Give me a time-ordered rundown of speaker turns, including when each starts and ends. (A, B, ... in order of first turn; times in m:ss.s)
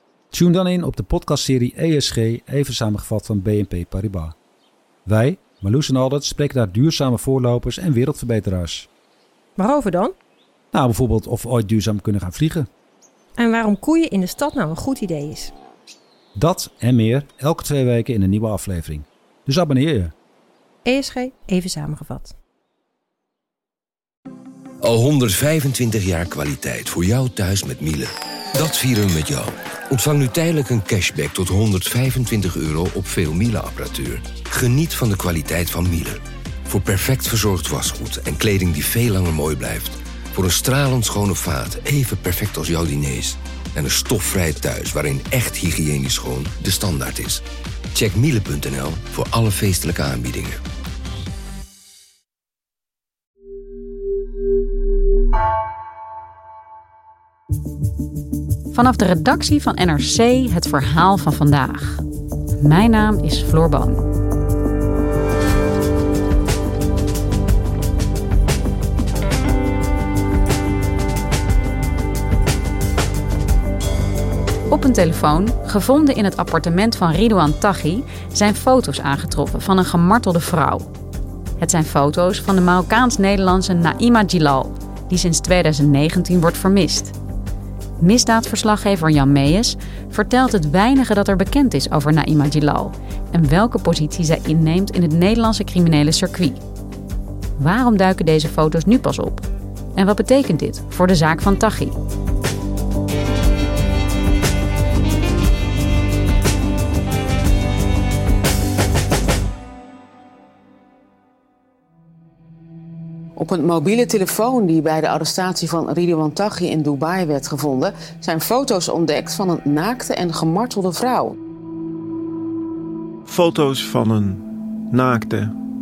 0:00.3-0:04.4 A
0:05.1-0:08.9 A
0:09.6-0:10.2 B
0:10.7-0:12.7 A
0:13.4-0:15.5 B
0:16.4-0:20.1 A
0:20.8-0:22.4 B
0:24.8-0:50.6 C
0:58.7-1:02.0 D
1:02.6-1:04.0 D
1:14.7-1:20.9 D
1:21.6-1:27.2 D
1:28.0-1:36.6 D
1:37.6-1:42.0 D
1:53.4-2:01.3 E
2:03.3-2:05.5 F